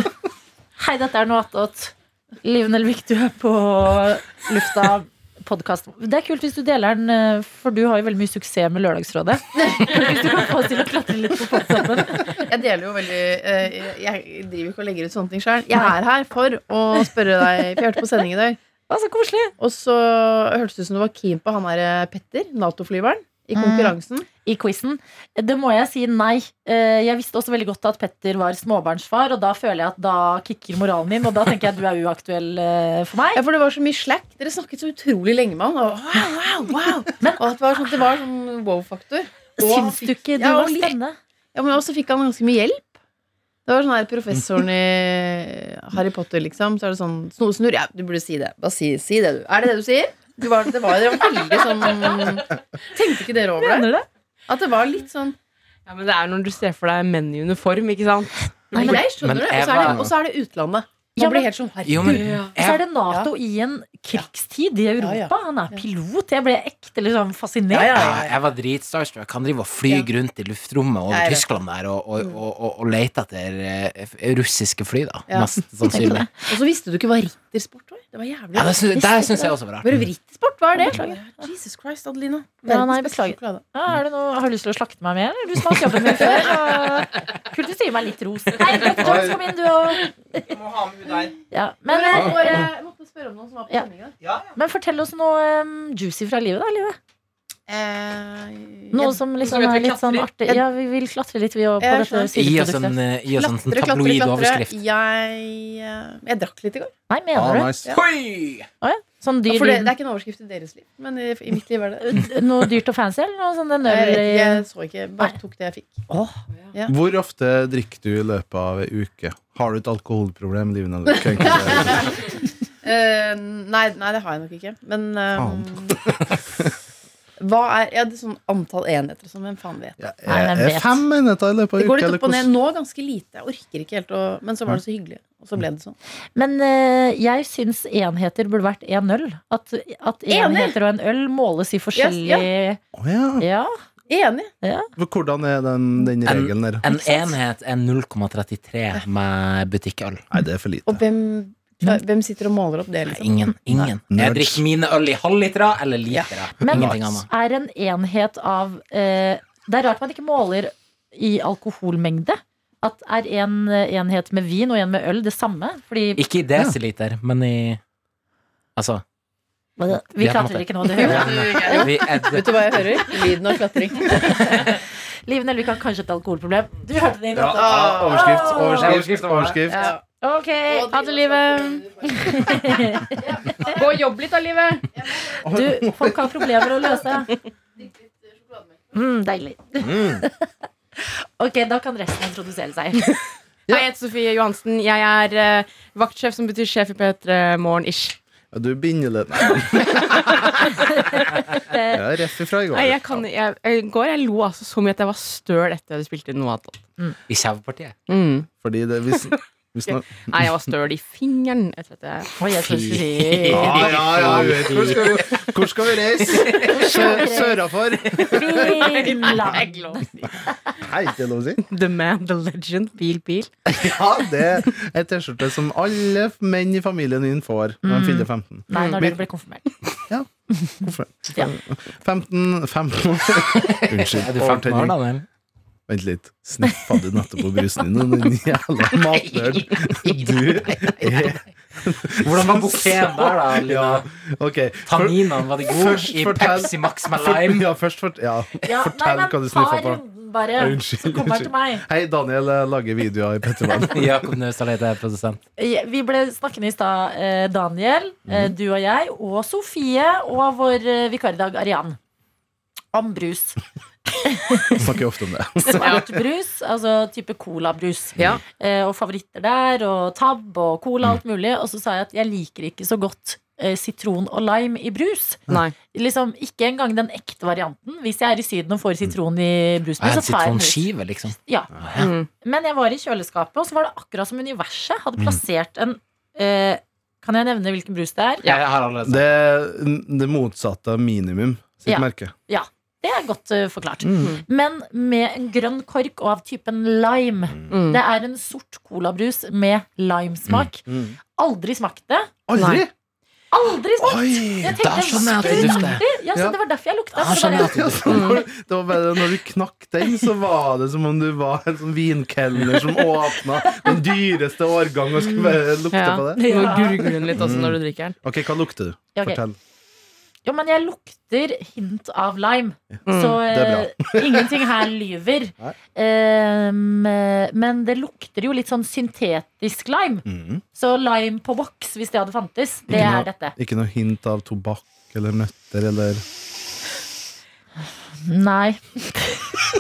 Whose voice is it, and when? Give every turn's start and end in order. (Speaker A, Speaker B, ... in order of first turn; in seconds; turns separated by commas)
Speaker A: 0.8-1.9, Speaker A: 2.4-12.4, Speaker B: 12.2-18.6, Speaker A: 18.9-19.5, Speaker B: 19.6-24.3, Speaker A: 23.6-33.4, Speaker B: 33.3-41.0, Speaker A: 37.2-37.5, Speaker A: 39.6-41.2, Speaker B: 41.5-42.9, Speaker B: 43.7-53.9, Speaker A: 53.6-54.1, Speaker B: 54.5-55.4, Speaker C: 55.9-58.8, Speaker A: 58.7-59.0, Speaker B: 58.7-62.5, Speaker D: 58.9-60.1, Speaker A: 61.2-68.0, Speaker D: 61.9-62.8, Speaker B: 65.0-65.8, Speaker B: 67.7-68.4, Speaker D: 67.9-76.3, Speaker B: 71.1-71.5, Speaker B: 75.3-78.8, Speaker A: 75.8-76.3, Speaker D: 78.5-80.0, Speaker A: 79.0-79.5, Speaker B: 79.8-83.6, Speaker A: 80.8-81.2, Speaker A: 82.7-92.7, Speaker B: 86.2-86.5, Speaker E: 89.0-89.4, Speaker B: 90.8-91.3, Speaker B: 91.9-94.2, Speaker A: 94.5-97.0, Speaker B: 97.7-99.2, Speaker A: 98.9-103.0, Speaker C: 99.4-100.3, Speaker B: 101.8-102.3, Speaker D: 102.4-104.8, Speaker B: 103.4-106.9, Speaker A: 107.1-107.8, Speaker E: 107.3-107.9, Speaker D: 107.9-108.7, Speaker A: 108.8-109.9, Speaker B: 109.5-112.3, Speaker A: 112.0-114.6, Speaker B: 113.8-116.0, Speaker A: 116.1-116.4, Speaker E: 116.9-122.1, Speaker B: 121.4-126.1, Speaker E: 125.4-126.7, Speaker B: 127.4-130.0, Speaker E: 130.0-132.5, Speaker A: 130.3-131.0, Speaker B: 131.8-136.0, Speaker A: 136.4-142.8, Speaker B: 140.3-140.8, Speaker B: 142.0-142.5, Speaker E: 142.9-143.5, Speaker A: 143.4-143.7, Speaker B: 144.1-144.5, Speaker A: 144.6-144.9, Speaker E: 145.0-146.8, Speaker D: 146.2-150.2, Speaker A: 146.9-147.3, Speaker E: 150.3-151.0, Speaker B: 150.9-153.3, Speaker D: 153.1-157.3, Speaker E: 154.1-154.6, Speaker A: 156.6-166.2, Speaker E: 156.7-157.2, Speaker D: 166.2-167.8, Speaker D: 168.8-169.0, Speaker A: 169.8-171.8, Speaker D: 170.2-172.8, Speaker B: 171.0-174.4, Speaker A: 174.1-174.8, Speaker D: 174.3-174.8, Speaker A: 175.3-179.0, Speaker E: 177.3-179.9, Speaker B: 177.6-178.6, Speaker D: 178.6-179.8, Speaker B: 179.7-180.0, Speaker A: 180.2-181.0, Speaker B: 180.7-183.8, Speaker C: 180.9-181.9, Speaker A: 182.0-183.8, Speaker C: 183.6-184.9, Speaker B: 185.1-185.3, Speaker A: 185.3-187.4, Speaker E: 185.4-186.5, Speaker A: 188.9-190.5, Speaker E: 189.8-190.3, Speaker A: 191.0-193.1, Speaker C: 193.7-198.2, Speaker E: 198.5-200.4, Speaker A: 200.8-202.0, Speaker E: 201.8-203.2, Speaker C: 202.7-206.8, Speaker D: 207.3-207.9, Speaker C: 208.1-208.5, Speaker E: 208.6-210.6, Speaker C: 209.9-212.3, Speaker A: 212.4-213.9, Speaker D: 212.5-215.6, Speaker E: 213.5-219.0, Speaker D: 216.2-217.2, Speaker A: 216.6-220.3, Speaker C: 218.4-220.2, Speaker E: 220.8-221.6, Speaker C: 221.6-223.5, Speaker E: 223.7-229.2, Speaker A: 227.8-229.7, Speaker C: 228.7-229.1, Speaker E: 230.1-234.9, Speaker A: 230.6-231.5, Speaker D: 233.5-235.3, Speaker E: 235.9-250.0, Speaker D: 239.2-241.4, Speaker D: 242.2-244.1, Speaker D: 244.9-247.7, Speaker A: 248.6-251.8, Speaker E: 250.6-254.3, Speaker D: 253.9-255.4, Speaker A: 255.6-262.0, Speaker A: 262.9-263.6, Speaker A: 264.2-264.8, Speaker E: 264.8-266.1, Speaker A: 265.7-281.7, Speaker C: 275.5-275.7, Speaker D: 280.0-282.1, Speaker C: 282.0-282.3, Speaker A: 282.4-288.6, Speaker D: 288.4-289.2, Speaker E: 289.1-292.3, Speaker A: 291.9-302.3, Speaker E: 294.0-294.3, Speaker C: 297.7-298.0, Speaker E: 300.9-301.2, Speaker E: 302.5-302.9, Speaker C: 302.6-302.8, Speaker A: 303.5-307.9, Speaker E: 304.0-306.6, Speaker D: 304.6-306.0, Speaker D: 307.2-308.3, Speaker E: 307.4-316.8, Speaker C: 308.1-308.4, Speaker A: 313.6-313.9, Speaker C: 315.9-318.1, Speaker A: 316.4-317.3, Speaker E: 317.3-319.6, Speaker A: 319.1-319.4, Speaker A: 320.4-333.6, Speaker C: 323.1-323.4, Speaker E: 323.4-324.6, Speaker E: 330.3-330.6, Speaker E: 332.9-336.2, Speaker A: 338.2-339.5